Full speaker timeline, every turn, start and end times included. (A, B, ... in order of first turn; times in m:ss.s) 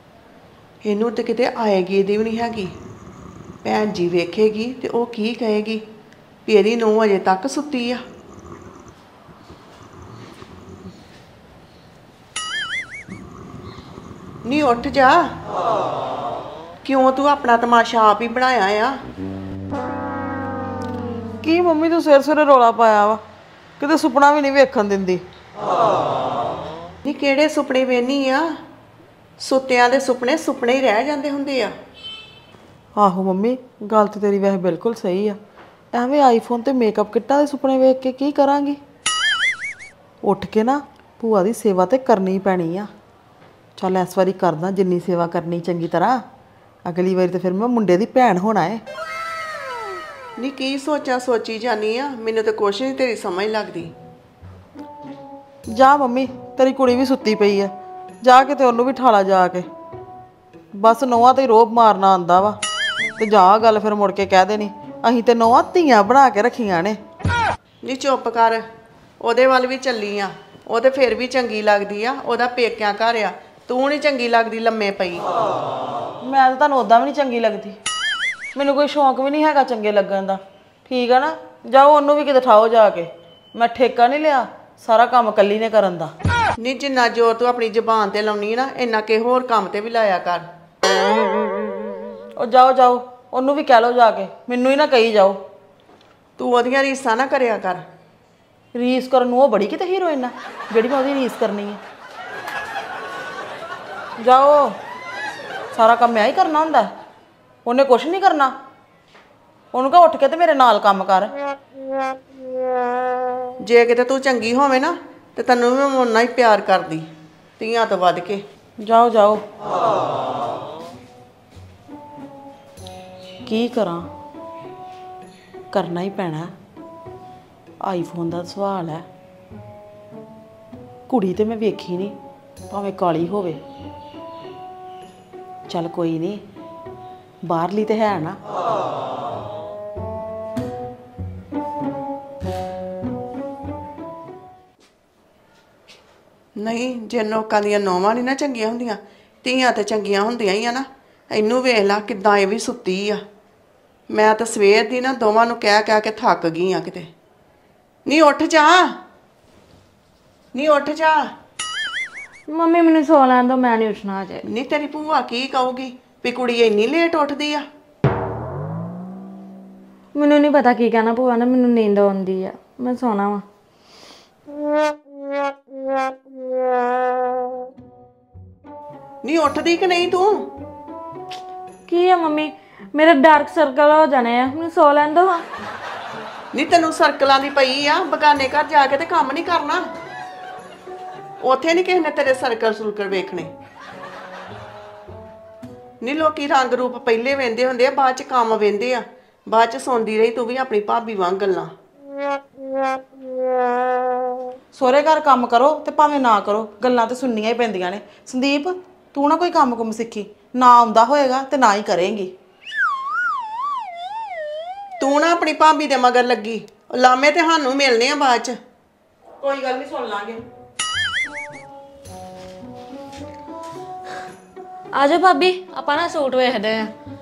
0:00.8-0:02.7 A
0:03.6-0:05.8 A
0:06.5-0:08.0 A
0:14.4-0:15.2 A
0:16.8-0:18.9 A
0:21.4-0:23.2 B
0:23.8-0:25.2 B
0:27.0-0:28.4 A
0:29.4-0:31.7 A
0:33.0-0:35.4 B
0:35.9-0:38.8 B
0:40.2-0:42.9 B
0:43.8-0:46.2 B
0:46.8-0:48.8 B
0:50.4-0:53.9 A
0:55.7-0:57.7 B
0:58.2-0:59.6 B
1:00.8-1:02.6 B
1:03.2-1:07.0 B
1:07.8-1:08.6 A
1:09.2-1:15.2 A
1:16.2-1:17.8 B
1:18.6-1:26.1 B
1:26.6-1:30.4 A
1:32.4-1:35.4 B
1:36.4-1:37.8 A
1:38.7-1:41.8 B
1:44.2-1:44.7 B
1:45.7-1:46.9 B
1:47.6-1:48.5 B
1:49.7-1:51.3 B
1:53.7-1:57.1 A
1:57.6-1:58.4 A
1:58.8-1:59.4 B
2:03.5-2:04.1 B
2:05.7-2:06.5 B
2:07.8-2:09.0 B
2:11.1-2:12.1 B
2:12.7-2:13.6 B
2:15.7-2:16.4 B
2:17.4-2:18.4 B
2:26.6-2:33.2 A
2:34.1-2:37.1 A
2:38.1-2:38.8 A
2:40.5-2:41.2 A
2:42.5-2:44.4 C
2:44.5-2:47.6 A
2:50.1-2:53.4 C
2:59.2-3:00.4 A
3:01.9-3:05.4 C
3:06.5-3:09.8 A
3:11.4-3:13.5 A
3:16.0-3:21.7 A
3:24.7-3:32.3 B
3:35.0-3:38.5 A
3:39.4-3:40.4 B
3:44.9-3:46.9 C